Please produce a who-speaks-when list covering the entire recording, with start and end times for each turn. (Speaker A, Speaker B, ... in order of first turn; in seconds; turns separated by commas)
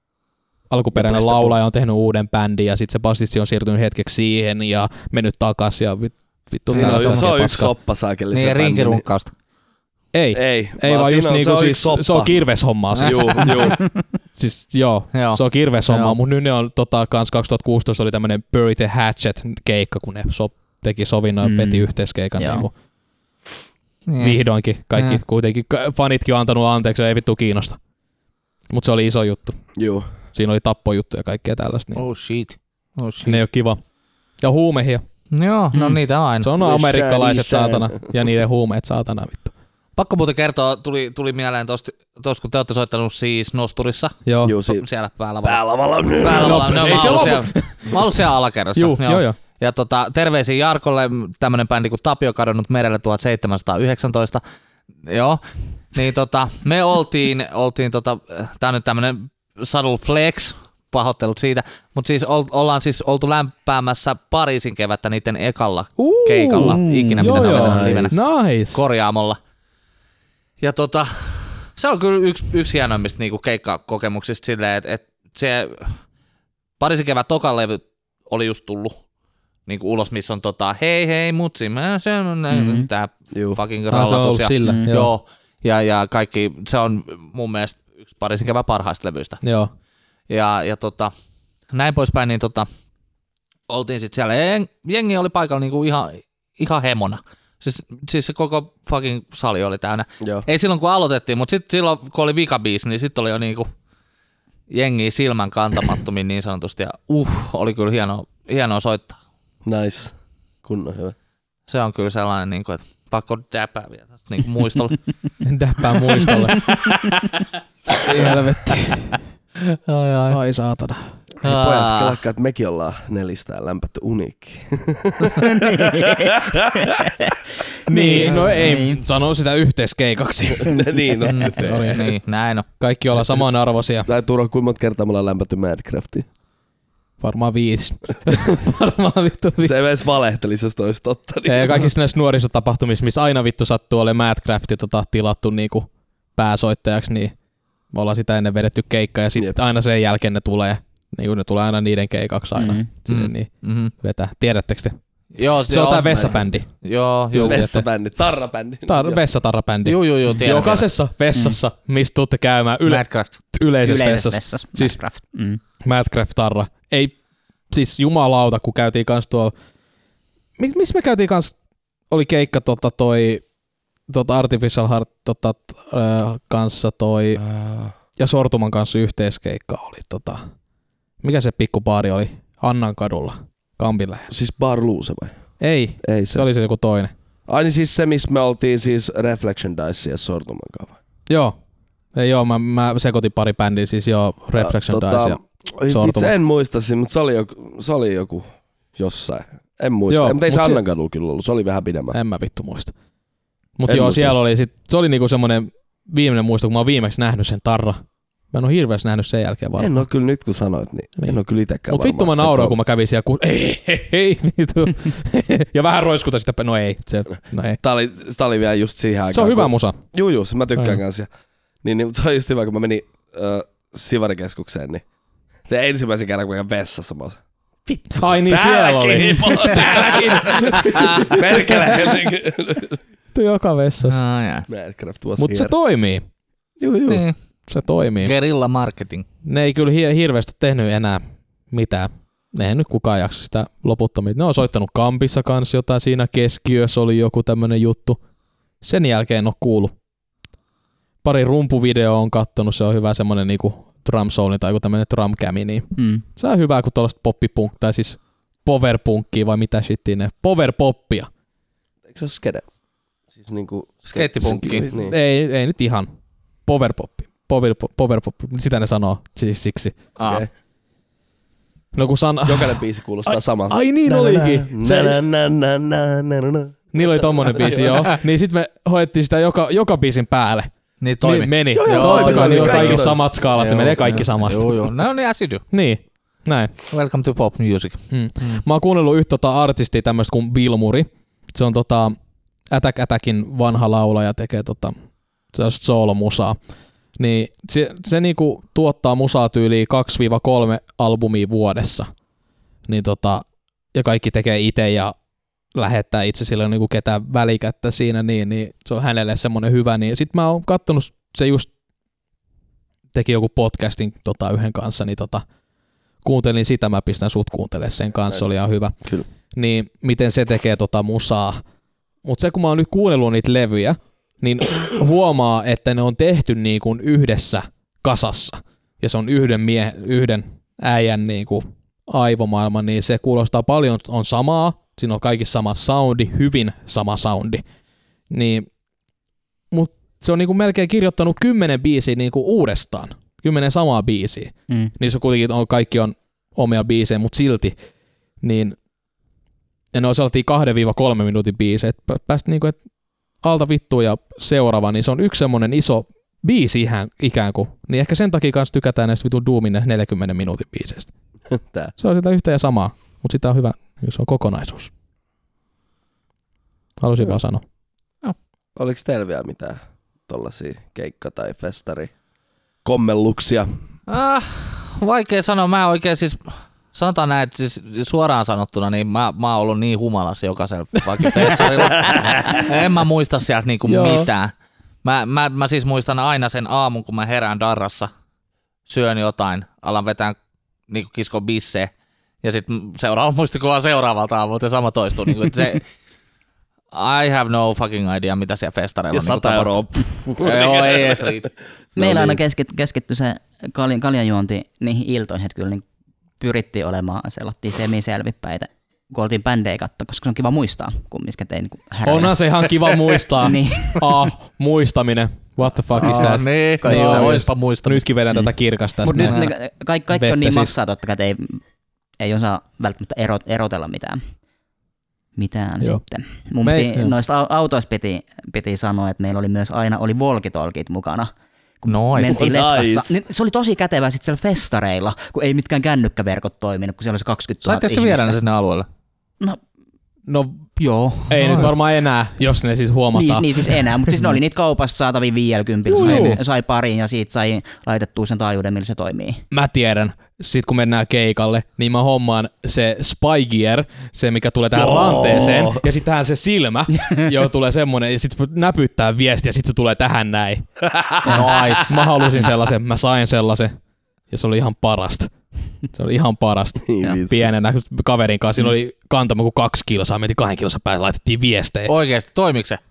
Speaker A: 0.7-7.7, Speaker B: 0.9-1.6, Speaker B: 6.7-9.0, Speaker C: 6.7-7.3, Speaker C: 8.3-9.3, Speaker A: 10.1-13.8, Speaker B: 10.3-12.4, Speaker C: 12.9-13.8, Speaker B: 12.9-13.9, Speaker A: 14.3-22.7, Speaker C: 15.1-16.2, Speaker D: 21.4-22.7, Speaker C: 24.1-24.4, Speaker A: 24.2-27.8, Speaker C: 24.9-25.2, Speaker A: 28.7-29.6, Speaker B: 29.8-30.1, Speaker A: 30.3-32.0, Speaker C: 31.9-33.4, Speaker A: 33.2-33.8, Speaker A: 34.4-35.0, Speaker C: 35.3-36.5, Speaker D: 35.7-36.0, Speaker A: 36.4-39.5, Speaker B: 36.6-38.0, Speaker C: 40.0-45.6, Speaker A: 44.3-44.5, Speaker B: 44.4-44.8, Speaker B: 45.4-47.4, Speaker C: 46.2-54.4, Speaker A: 46.3-48.0, Speaker A: 48.8-49.4, Speaker C: 55.1-55.4, Speaker C: 55.9-69.4, Speaker A: 66.0-68.9, Speaker D: 66.6-67.5, Speaker B: 67.4-68.1, Speaker C: 70.6-76.0, Speaker C: 76.8-79.0, Speaker C: 79.7-89.4, Speaker D: 82.5-82.9, Speaker B: 83.3-83.6, Speaker A: 83.9-85.1, Speaker D: 84.6-84.9, Speaker A: 89.4-89.7, Speaker C: 90.3-91.1, Speaker C: 91.7-92.7, Speaker C: 93.7-103.7, Speaker C: 104.7-109.2, Speaker B: 109.6-110.1, Speaker B: 110.6-111.1, Speaker C: 111.7-115.0, Speaker A: 115.4-116.8, Speaker C: 116.3-117.4, Speaker C: 117.9-118.4, Speaker A: 118.0-119.2, Speaker C: 119.6-120.4, Speaker A: 120.3-121.2, Speaker B: 121.4-127.2, Speaker C: 121.4-122.2, Speaker D: 125.4-127.3, Speaker A: 127.9-130.8, Speaker D: 127.9-129.0, Speaker C: 128.2-128.5, Speaker B: 130.6-132.1, Speaker C: 131.2-132.7, Speaker A: 131.6-132.1, Speaker A: 132.8-134.1, Speaker B: 134.1-136.3, Speaker A: 137.2-139.8, Speaker B: 139.6-141.9, Speaker A: 141.4-147.3, Speaker A: 147.9-155.0, Speaker D: 152.6-152.9, Speaker C: 153.1-153.9, Speaker C: 155.3-157.7, Speaker A: 155.7-156.7, Speaker A: 157.3-157.9, Speaker B: 157.4-159.2, Speaker A: 158.9-165.0, Speaker C: 159.8-160.9, Speaker D: 161.3-161.6, Speaker C: 162.9-163.4, Speaker D: 163.8-165.6, Speaker A: 165.8-167.1, Speaker A: 167.7-169.5, Speaker A: 170.6-171.6, Speaker A: 172.1-173.4, Speaker A: 174.1-177.4, Speaker B: 177.4-177.9, Speaker A: 178.2-180.4, Speaker A: 181.2-184.3, Speaker B: 184.3-185.3, Speaker A: 185.6-187.1, Speaker B: 186.0-186.4, Speaker B: 187.5-191.0, Speaker A: 191.3-191.6, Speaker A: 192.1-196.3, Speaker B: 194.6-202.2, Speaker A: 200.1-200.8, Speaker A: 202.1-202.9, Speaker A: 203.8-209.9, Speaker B: 203.9-204.3, Speaker B: 209.8-212.8, Speaker A: 211.2-217.8, Speaker B: 217.8-221.3, Speaker A: 219.3-220.0, Speaker A: 220.7-221.0, Speaker B: 221.8-225.0, Speaker B: 225.7-233.0, Speaker A: 228.1-232.2, Speaker A: 233.3-234.2, Speaker C: 234.1-234.7, Speaker B: 234.7-235.7, Speaker A: 235.4-236.2, Speaker B: 236.8-237.2, Speaker C: 237.1-237.3, Speaker A: 237.7-238.3, Speaker C: 238.2-239.3, Speaker A: 239.4-248.2, Speaker A: 248.8-249.9, Speaker A: 251.2-261.3, Speaker D: 255.9-256.2, Speaker B: 262.1-262.7, Speaker B: 263.3-265.1, Speaker C: 264.1-264.9, Speaker A: 264.9-266.1, Speaker A: 266.7-270.0, Speaker C: 270.2-270.4, Speaker A: 271.9-275.2, Speaker B: 272.4-278.1, Speaker A: 276.9-280.7, Speaker C: 281.0-285.6, Speaker A: 281.2-284.9, Speaker B: 281.7-283.2, Speaker A: 285.7-286.7, Speaker C: 286.9-288.6, Speaker A: 288.1-292.2, Speaker A: 292.7-294.9, Speaker A: 295.5-296.6, Speaker A: 297.2-302.1, Speaker A: 302.9-305.1, Speaker A: 305.7-311.7, Speaker A: 313.1-315.4, Speaker A: 316.2-318.9, Speaker A: 319.5-321.6, Speaker A: 322.2-337.6, Speaker A: 338.3-338.7, Speaker A: 339.7-347.7, Speaker A: 348.4-348.8, Speaker A: 349.9-352.8, Speaker A: 353.4-361.1, Speaker B: 361.6-361.9, Speaker A: 362.0-364.9, Speaker A: 367.0-367.6, Speaker B: 368.8-372.1, Speaker B: 372.8-373.7, Speaker C: 374.1-384.5, Speaker A: 383.9-384.3, Speaker C: 385.0-388.1, Speaker C: 388.9-390.4, Speaker C: 390.9-391.9, Speaker C: 392.4-395.8, Speaker C: 396.9-401.5, Speaker B: 399.1-401.4, Speaker D: 401.9-405.8, Speaker B: 402.0-402.4, Speaker D: 406.4-412.5, Speaker A: 412.0-419.5, Speaker D: 413.4-414.0, Speaker C: 415.9-418.1, Speaker D: 416.0-417.4, Speaker D: 418.3-421.6, Speaker A: 420.1-420.7, Speaker D: 422.2-424.2, Speaker D: 425.4-431.3, Speaker A: 426.6-427.1, Speaker D: 431.8-438.4, Speaker C: 431.9-432.5, Speaker B: 432.3-433.2, Speaker C: 437.6-438.9, Speaker A: 440.3-440.6, Speaker D: 440.8-441.6, Speaker A: 441.3-444.4, Speaker C: 441.4-441.7, Speaker D: 443.1-449.4, Speaker A: 445.9-446.4, Speaker C: 446.0-446.4, Speaker A: 449.5-460.6, Speaker B: 454.7-455.8, Speaker D: 456.9-457.3, Speaker C: 461.2-462.5, Speaker A: 461.2-463.7, Speaker B: 461.3-461.8, Speaker A: 464.3-465.3, Speaker A: 465.9-471.9, Speaker B: 466.8-467.5, Speaker C: 471.9-472.8